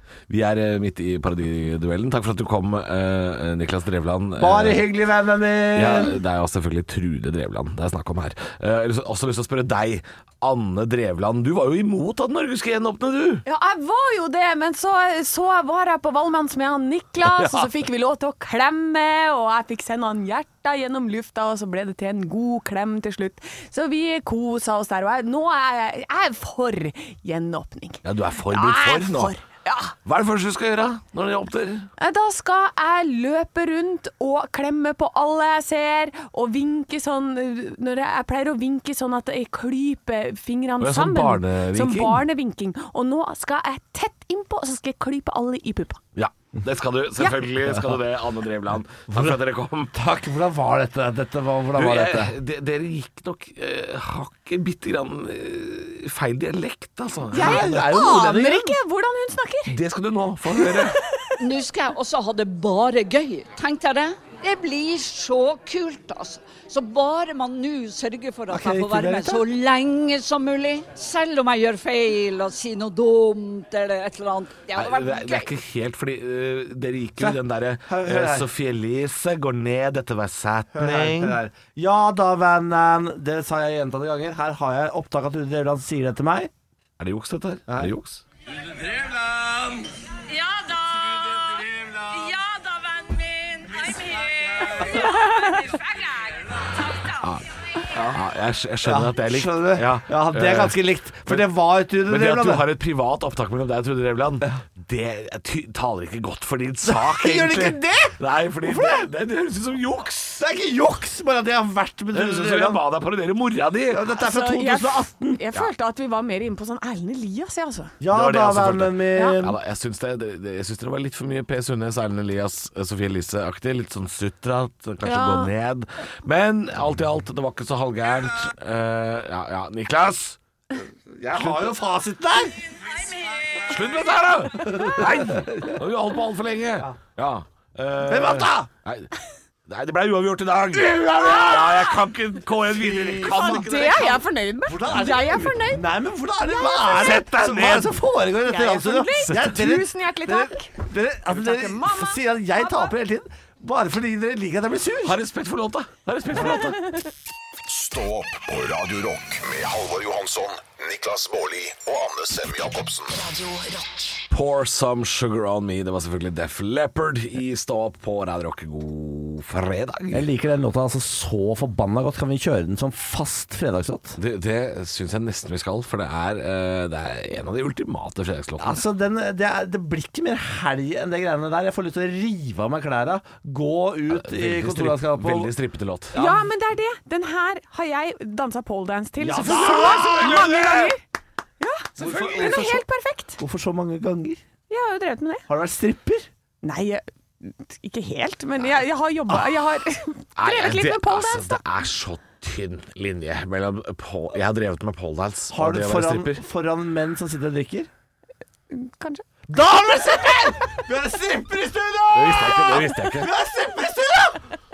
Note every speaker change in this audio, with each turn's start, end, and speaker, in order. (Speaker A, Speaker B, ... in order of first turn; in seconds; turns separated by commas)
Speaker A: 0.3-4.9, Speaker B: 4.4-6.2, Speaker A: 5.7-13.4, Speaker C: 13.4-29.9, Speaker B: 17.4-17.6, Speaker A: 28.0-29.3, Speaker A: 30.0-31.9, Speaker C: 32.0-46.0, Speaker A: 40.8-42.2, Speaker A: 46.1-50.0, Speaker B: 49.1-49.4, Speaker B: 49.9-52.3, Speaker A: 51.8-57.8, Speaker B: 57.3-58.8, Speaker C: 57.3-59.8, Speaker A: 59.7-61.0, Speaker C: 60.5-61.4, Speaker D: 61.4-75.5, Speaker B: 68.5-69.4, Speaker A: 74.7-81.4, Speaker B: 77.2-78.5, Speaker B: 80.7-86.5, Speaker A: 87.0-88.2, Speaker E: 90.3-97.2, Speaker A: 97.0-101.5, Speaker B: 97.9-98.2, Speaker B: 98.8-102.7, Speaker A: 102.0-110.5, Speaker B: 106.8-109.1, Speaker B: 110.4-112.8, Speaker A: 112.1-114.1, Speaker B: 113.9-115.4, Speaker C: 114.2-117.9, Speaker B: 118.0-119.6, Speaker A: 118.1-130.4, Speaker C: 125.0-125.5, Speaker B: 131.1-132.6, Speaker A: 131.3-131.7, Speaker A: 133.7-139.1, Speaker B: 134.6-135.7, Speaker B: 138.0-138.7, Speaker A: 139.7-144.2, Speaker B: 140.8-142.0, Speaker B: 142.6-155.2, Speaker C: 143.3-145.8, Speaker C: 146.5-146.9, Speaker A: 146.9-147.9, Speaker C: 148.4-150.7, Speaker C: 151.2-152.6, Speaker A: 155.0-157.0, Speaker F: 157.7-163.2, Speaker E: 163.1-164.2, Speaker A: 164.3-170.3, Speaker B: 170.1-174.2, Speaker A: 174.2-178.8, Speaker B: 178.6-185.5, Speaker A: 184.1-186.2, Speaker B: 186.1-186.5, Speaker C: 186.1-191.0, Speaker B: 189.2-190.7, Speaker A: 189.4-190.9, Speaker C: 191.6-193.4, Speaker A: 192.0-192.7, Speaker B: 192.0-192.8, Speaker B: 193.4-194.4, Speaker C: 194.7-195.4, Speaker B: 195.5-196.3, Speaker C: 196.6-201.6, Speaker A: 200.3-206.4, Speaker B: 205.5-207.9, Speaker C: 208.7-209.2, Speaker B: 209.5-214.4, Speaker A: 212.1-213.3